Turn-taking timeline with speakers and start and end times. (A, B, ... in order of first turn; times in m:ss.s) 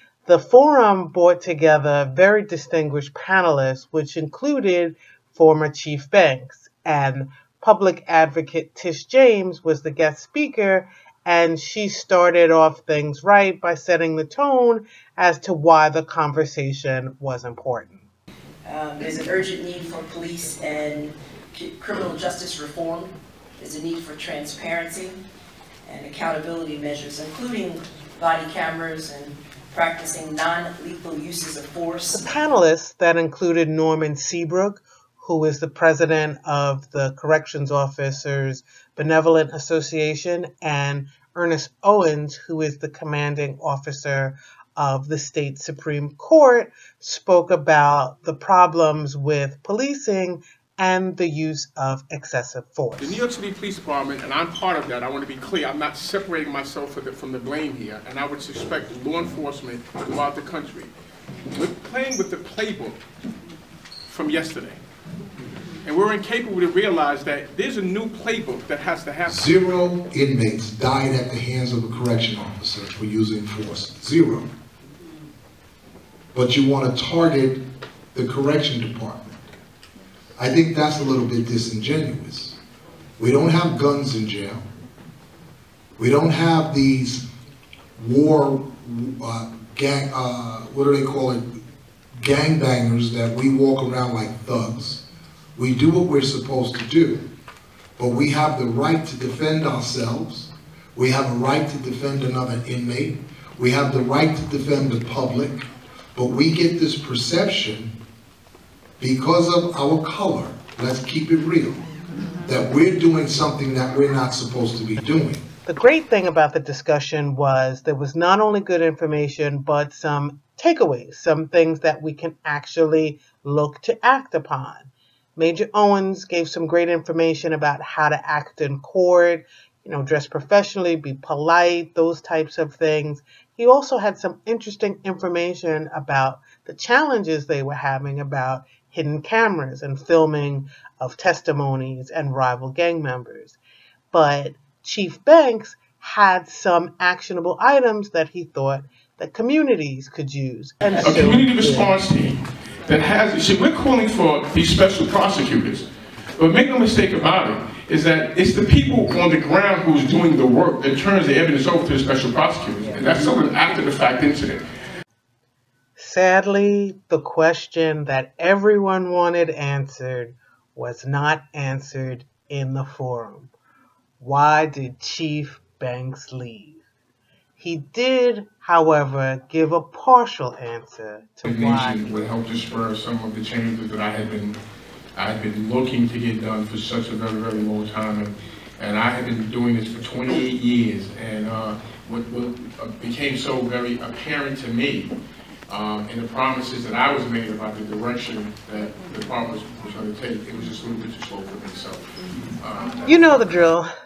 0:00.2-0:18.0 A
0:18.6-0:25.2 B
0:25.8-0:32.3 B
0:32.1-0:53.2 A
0:53.0-1:00.9 C
1:01.5-1:03.0 C
1:04.1-1:04.8 C
1:05.8-1:09.6 C
1:09.2-1:14.5 D
1:16.3-1:17.6 D
1:18.1-1:19.4 D
1:20.4-1:22.6 D
1:23.2-1:24.6 D
1:26.0-1:27.2 D
1:28.0-1:31.4 D
1:32.2-1:35.0 D
1:35.6-1:37.3 D
1:38.0-1:47.9 D
1:49.0-1:51.8 D
1:52.4-1:55.4 D
1:55.6-2:23.6 A
2:24.1-2:32.0 A
2:31.0-2:44.6 C
2:46.0-2:53.5 A
2:54.2-2:56.8 A
2:57.6-3:02.1 A
3:01.4-3:04.6 C
3:05.1-3:15.1 C
3:15.7-3:22.1 C
3:22.6-3:23.6 C
3:23.0-3:23.9 A